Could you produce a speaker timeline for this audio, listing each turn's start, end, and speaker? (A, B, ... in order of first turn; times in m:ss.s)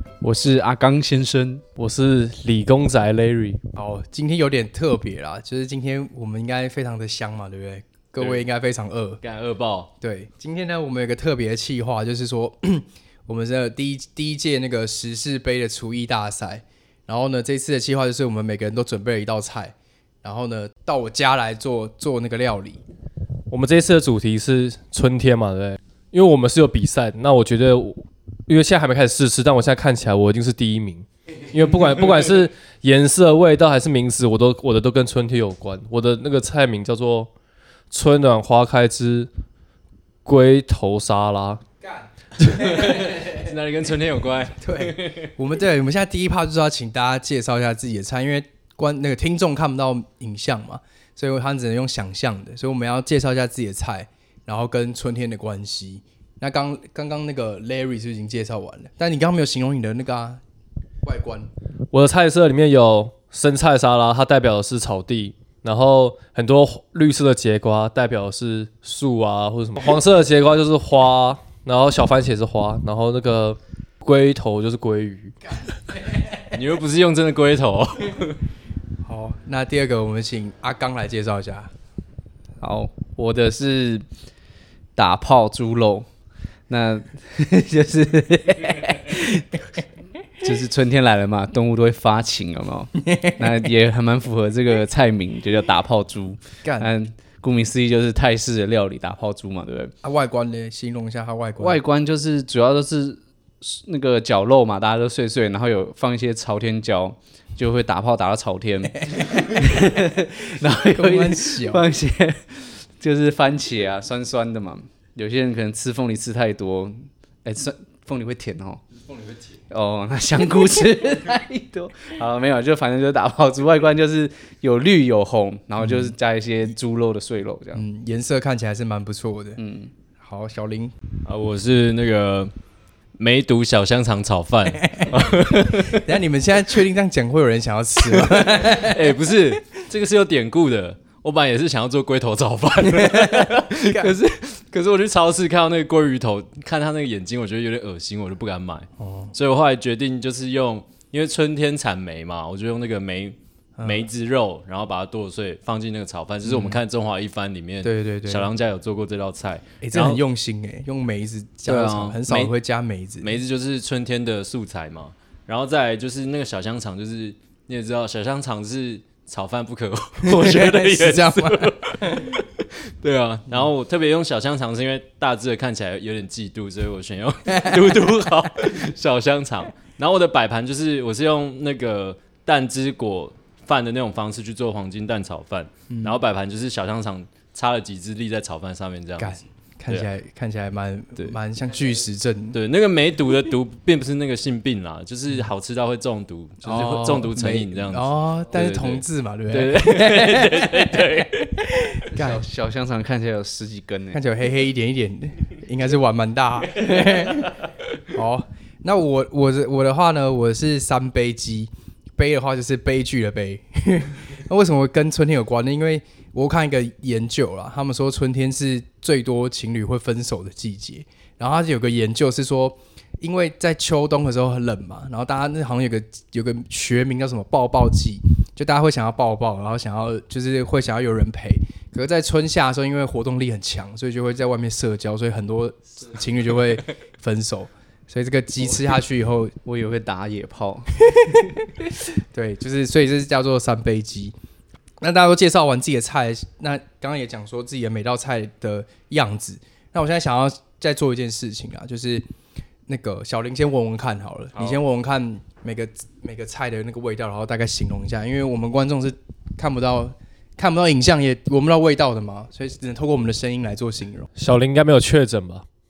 0:00.2-0:01.6 A
0:01.8-0:03.6 B
0:03.7-0:09.2 C
0:08.2-0:08.5 D
0:09.2-0:09.9 D
0:10.0-0:22.8 C
0:23.5-0:37.3 B
0:37.9-0:39.3 B
0:40.2-0:41.6 B
0:41.8-0:43.4 C
0:42.4-0:45.3 D
0:44.6-1:00.4 C
1:01.0-1:01.5 C
1:01.9-1:15.3 B
1:16.1-1:16.4 C
1:16.5-1:18.4 D
1:19.0-1:21.7 C
1:22.6-1:24.0 A
1:25.0-1:26.1 A
1:26.7-1:29.5 A
1:30.4-1:39.9 A
1:36.6-1:36.9 C
1:40.0-1:41.8 C
1:41.6-1:58.8 A
1:49.1-1:49.6 C
1:50.8-1:51.8 C
1:59.7-2:07.8 A
2:05.8-2:06.1 C
2:07.7-2:09.6 C
2:09.6-2:09.9 A
2:10.2-2:10.9 C
2:11.2-2:12.5 D
2:13.2-2:16.1 D
2:14.8-2:19.2 C
2:18.1-2:40.2 D
2:22.9-2:24.2 C
2:29.0-2:29.3 C
2:33.8-2:34.0 C
2:36.4-2:36.8 C
2:37.8-2:38.5 C
2:39.8-2:43.3 C
2:41.6-2:42.5 D
2:43.2-3:10.1 D
2:50.2-2:52.4 C
3:05.9-3:06.2 C
3:09.2-3:12.6 C
3:12.5-3:21.6 D
3:16.6-3:22.4 C
3:22.1-3:24.2 A
3:24.1-3:59.6 C
3:59.6-4:01.0 A
4:01.1-4:01.4 C
4:02.3-4:04.3 C
4:05.0-4:12.2 C
4:12.9-4:24.3 C
4:14.5-4:14.8 D
4:24.4-4:25.6 B